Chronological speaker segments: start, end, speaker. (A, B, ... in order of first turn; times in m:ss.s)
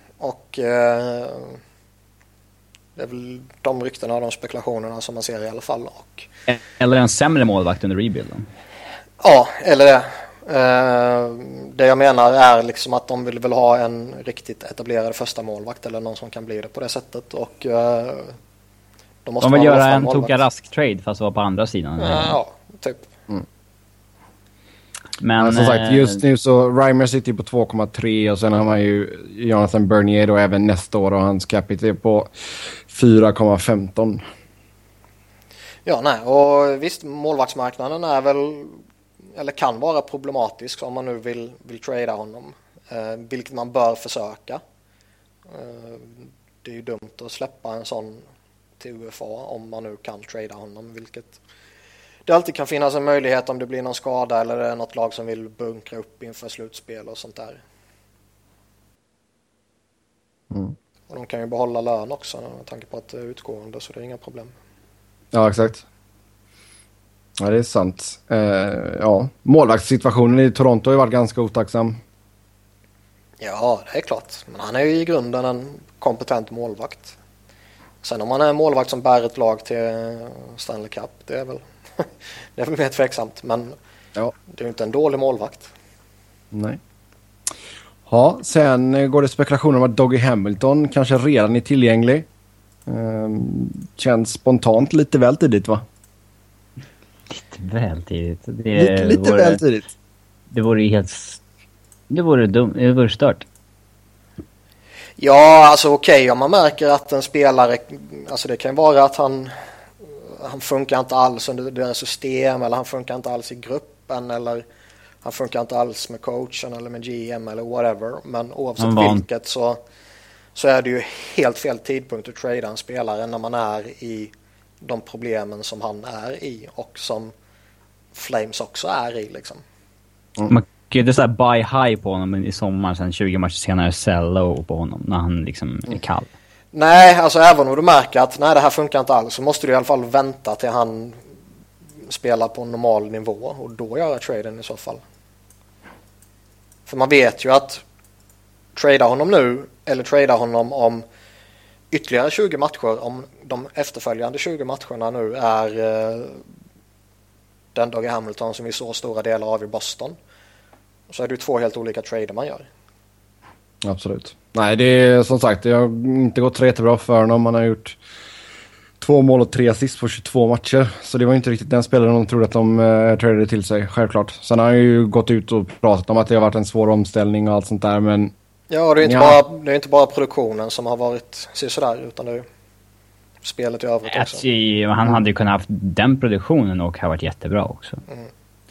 0:00.2-0:01.6 A
0:03.0-0:06.3 A
0:06.5-0:08.5 B
0:09.2-0:18.4 A
0:19.2-0:20.4 A
0:19.4-0:22.4 B
0:22.0-0:23.1 A
0:25.2-0:26.2 B
0:25.4-0:34.2 C
0:35.8-0:38.8 A
0:39.4-0:44.6 A
0:45.5-0:48.2 A
0:48.8-0:51.4 A
0:52.3-0:57.6 A
1:01.1-1:04.5 A
1:05.3-1:05.8 C
1:07.4-1:12.0 C
1:13.4-1:17.2 A
1:18.0-1:23.8 A
1:24.5-1:25.7 A
1:26.5-1:26.8 C
1:28.1-1:32.3 C
1:32.9-1:35.8 C
1:37.3-1:39.6 B
1:38.8-1:39.8 C
1:40.5-1:41.4 B
1:42.1-1:43.5 B
1:45.2-1:49.6 A
1:50.3-1:54.6 A
1:55.2-1:59.8 A
1:58.8-1:59.2 B
2:00.6-2:07.3 A
2:08.2-2:09.6 A
2:10.5-2:16.3 B
2:16.7-2:21.2 A
2:22.0-2:25.0 A
2:26.9-2:27.8 A
2:28.8-2:31.0 A
2:31.9-2:36.4 A
2:37.8-2:40.2 A
2:41.1-2:42.7 A
2:43.8-2:48.0 C
2:49.0-2:58.3 C
2:58.7-3:02.4 A
2:59.0-2:59.4 C
3:03.4-3:04.4 A
3:04.1-3:08.0 B